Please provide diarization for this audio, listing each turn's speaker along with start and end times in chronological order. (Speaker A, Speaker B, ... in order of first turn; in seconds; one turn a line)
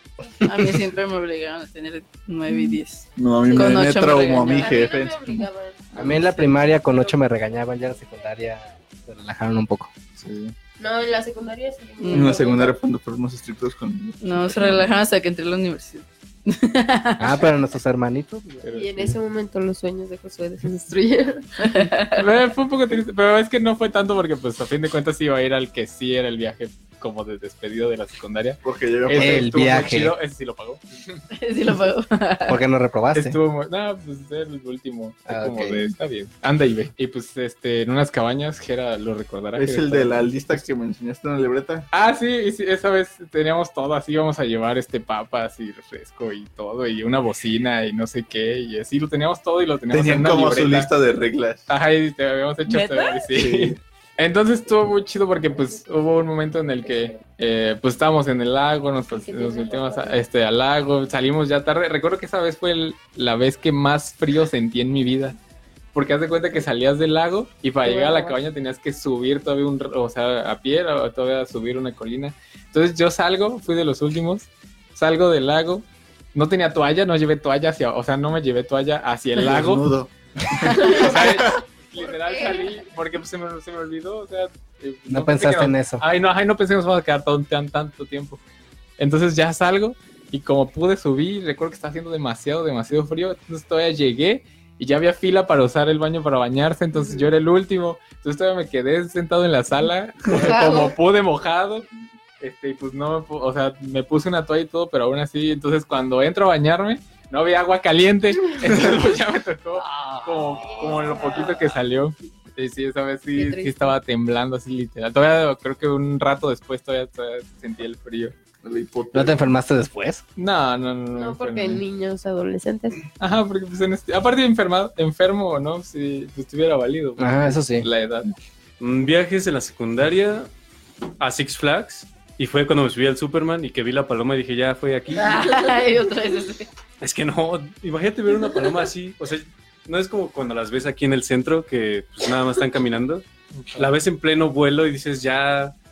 Speaker A: 0.4-4.8
Speaker B: 3.2-5.5
Speaker C: 3.4-7.1
Speaker D: 5.9-9.9
Speaker B: 10.2-10.5
Speaker C: 10.8-12.8
Speaker A: 12.0-12.4
Speaker B: 12.1-14.7
Speaker A: 14.2-17.5
Speaker D: 17.2-18.6
Speaker E: 18.6-19.1
Speaker C: 18.7-21.5
Speaker A: 21.6-22.2
Speaker E: 22.1-31.2
Speaker B: 28.6-29.5
Speaker D: 29.1-30.1
Speaker A: 31.3-32.6
Speaker D: 32.5-33.4
Speaker E: 33.1-40.6
Speaker D: 35.3-35.8
Speaker B: 39.5-41.9
Speaker E: 41.9-50.9
Speaker B: 49.9-51.7
Speaker E: 51.7-65.4
Speaker A: 52.6-53.3
Speaker B: 53.3-53.8
Speaker C: 59.1-60.2
Speaker E: 65.9-79.9
Speaker C: 67.8-68.4
Speaker B: 79.3-81.6
Speaker E: 80.8-88.4
Speaker C: 80.8-81.1
Speaker C: 82.0-82.9
Speaker D: 85.1-86.0
Speaker E: 89.0-101.9
Speaker C: 100.3-100.9
Speaker E: 102.4-118.3
Speaker D: 109.8-110.7
Speaker C: 110.6-111.6
Speaker C: 113.3-113.9
Speaker B: 118.6-119.3
Speaker D: 119.1-120.2
Speaker E: 120.4-121.8
Speaker C: 121.2-123.0
Speaker E: 123.2-128.3
Speaker D: 127.2-127.9
Speaker F: 128.8-130.5
Speaker F: 131.2-135.4
Speaker A: 135.2-136.7
Speaker F: 137.0-145.7
Speaker E: 143.5-143.9